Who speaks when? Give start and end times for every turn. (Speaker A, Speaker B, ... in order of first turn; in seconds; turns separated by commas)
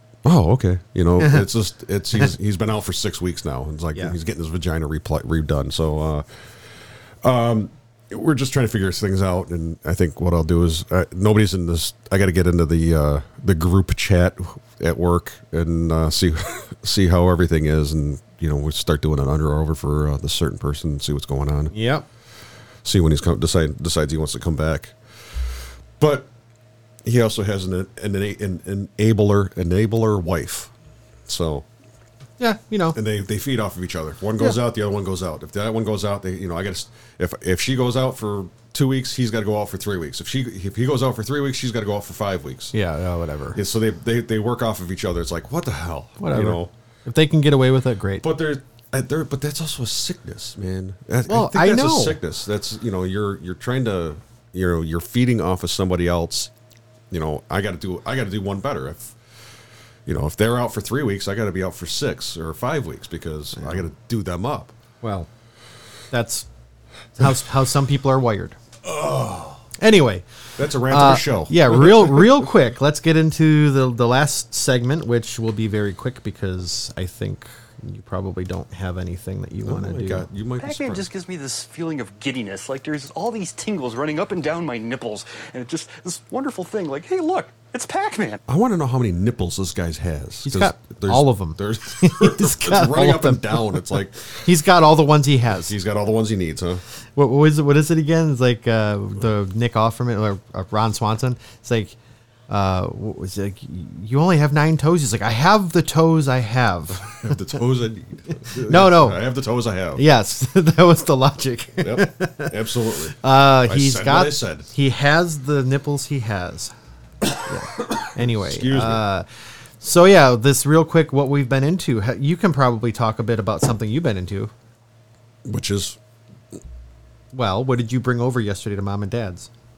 Speaker A: 0.2-6.2, Speaker A: 7.2-21.7, Speaker B: 21.7-22.1, Speaker A: 22.9-24.9, Speaker A: 26.0-26.3, Speaker A: 27.0-30.7, Speaker A: 31.3-31.7, Speaker B: 32.4-33.0, Speaker A: 33.0-42.8, Speaker B: 42.7-43.6, Speaker A: 43.5-46.7, Speaker B: 46.2-48.2, Speaker A: 48.2-56.5, Speaker B: 51.3-52.2, Speaker A: 57.1-59.2, Speaker A: 60.1-64.7, Speaker B: 63.6-63.8, Speaker B: 65.0-65.3, Speaker B: 66.1-66.5, Speaker B: 67.2-68.6, Speaker A: 68.8-69.6, Speaker B: 69.8-70.3, Speaker A: 70.6-72.4, Speaker B: 70.9-80.3, Speaker A: 79.7-81.1, Speaker C: 80.6-88.4, Speaker A: 88.5-94.3, Speaker B: 90.4-95.7, Speaker A: 95.7-96.8, Speaker B: 97.2-102.0, Speaker B: 102.5-107.4, Speaker A: 107.1-110.0, Speaker B: 108.5-109.2, Speaker B: 110.0-112.5, Speaker A: 111.8-114.7, Speaker B: 113.1-116.7, Speaker B: 117.5-119.3, Speaker A: 118.2-119.0, Speaker B: 119.8-124.5, Speaker A: 125.5-126.0, Speaker B: 127.3-129.5